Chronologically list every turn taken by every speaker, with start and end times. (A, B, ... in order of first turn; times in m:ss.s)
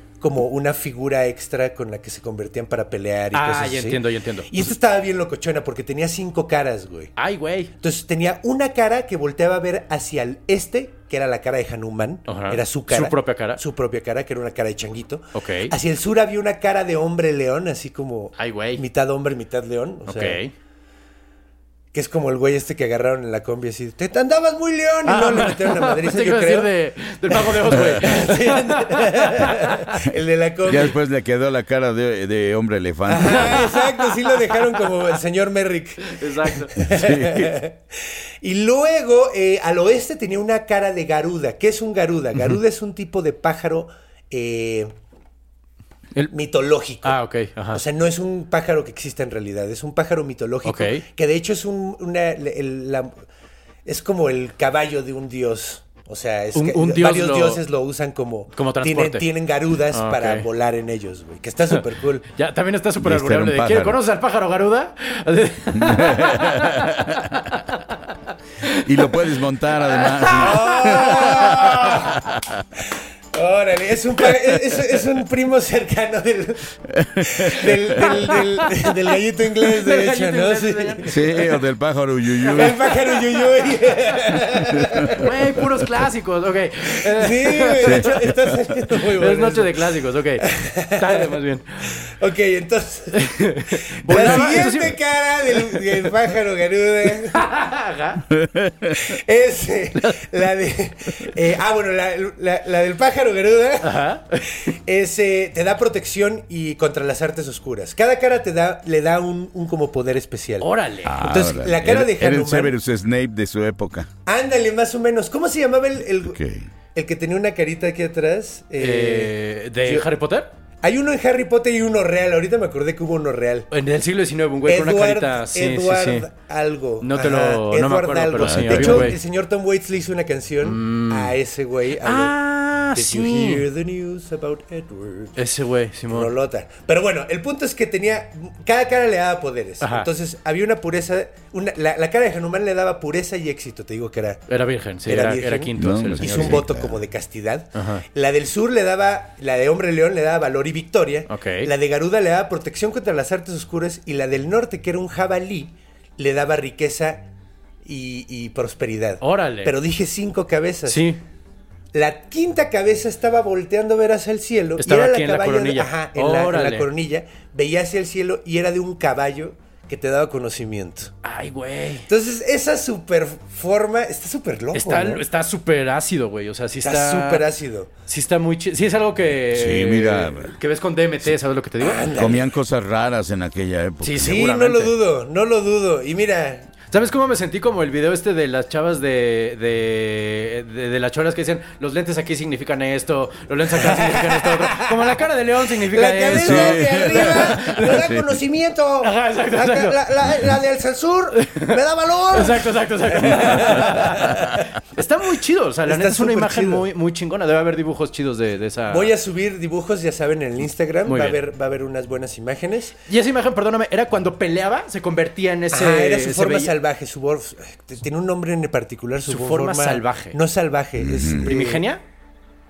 0:00.2-0:07.1 A
0:03.3-0:04.7 B
0:07.2-0:07.7 B
0:07.8-0:20.4 A
0:12.3-0:13.6 B
0:15.3-0:15.7 B
0:18.4-0:18.8 B
0:20.1-0:20.5 B
0:21.9-0:26.7 A
0:25.1-0:29.9 B
0:27.3-0:31.0 A
0:30.6-0:33.7 C
0:33.1-0:37.8 A
0:33.2-0:34.9 B
0:36.1-0:36.9 B
0:36.8-0:37.6 C
0:38.4-0:44.9 A
0:46.3-0:47.2 A
0:47.0-0:47.8 B
0:47.7-0:53.2 A
0:50.6-0:51.0 B
0:53.8-1:02.2 A
0:56.6-0:57.6 B
0:58.6-0:59.3 B
0:59.9-1:00.5 B
1:02.4-1:06.8 B
1:03.0-1:04.0 C
1:05.7-1:07.3 C
1:08.6-1:12.0 B
1:08.8-1:12.6 C
1:10.4-1:12.2 A
1:13.3-1:21.1 A
1:17.0-1:18.0 C
1:19.7-1:21.6 B
1:21.1-1:22.8 C
1:22.4-1:25.3 A
1:22.5-1:23.1 B
1:24.8-1:25.2 C
1:25.2-1:28.1 B
1:27.1-1:29.8 A
1:27.8-1:28.6 C
1:28.9-1:32.0 B
1:30.4-1:37.5 A
1:33.2-1:36.0 B
1:37.3-1:38.2 B
1:38.4-1:39.1 C
1:39.0-1:52.7 A
1:43.8-1:44.7 B
1:50.6-1:51.2 B
1:51.0-1:54.1 C
1:54.3-1:56.4 A
1:56.2-1:56.7 C
1:56.9-1:59.3 A
1:58.8-2:00.5 B
2:00.8-2:03.7 A
2:03.7-2:06.3 B
2:04.6-2:12.3 A
2:07.0-2:09.2 B
2:08.4-2:09.2 C
2:10.6-2:11.4 B
2:12.0-2:13.7 B
2:12.9-2:15.4 A
2:15.4-2:16.3 B
2:16.1-2:24.4 A
2:19.8-2:20.1 B
2:24.5-2:26.7 B
2:25.1-2:37.3 A
2:25.8-2:27.0 C
2:27.8-2:28.0 B
2:31.3-2:31.7 B
2:37.8-2:41.1 A
2:39.2-2:39.7 B
2:40.9-2:41.2 B
2:41.9-2:51.1 A
2:44.8-2:46.9 B
2:51.2-2:52.1 B
2:52.1-2:55.2 A
2:54.7-2:57.4 B
2:56.8-2:57.9 A
2:58.1-3:02.3 B
2:59.5-3:00.6 C
3:01.8-3:02.4 A
3:02.2-3:04.4 C
3:04.0-3:05.0 B
3:04.1-3:06.7 A
3:06.9-3:18.0 B
3:13.8-3:15.0 A
3:15.9-3:24.6 A
3:16.3-3:18.4 C
3:19.0-3:20.3 B
3:21.4-3:21.8 B
3:22.3-3:29.1 B
3:25.9-3:26.8 A
3:28.9-3:33.0 A
3:31.1-3:31.4 B
3:33.1-3:36.7 B
3:35.7-3:41.9 A
3:39.3-3:40.4 B
3:41.0-3:41.6 C
3:41.4-3:42.0 B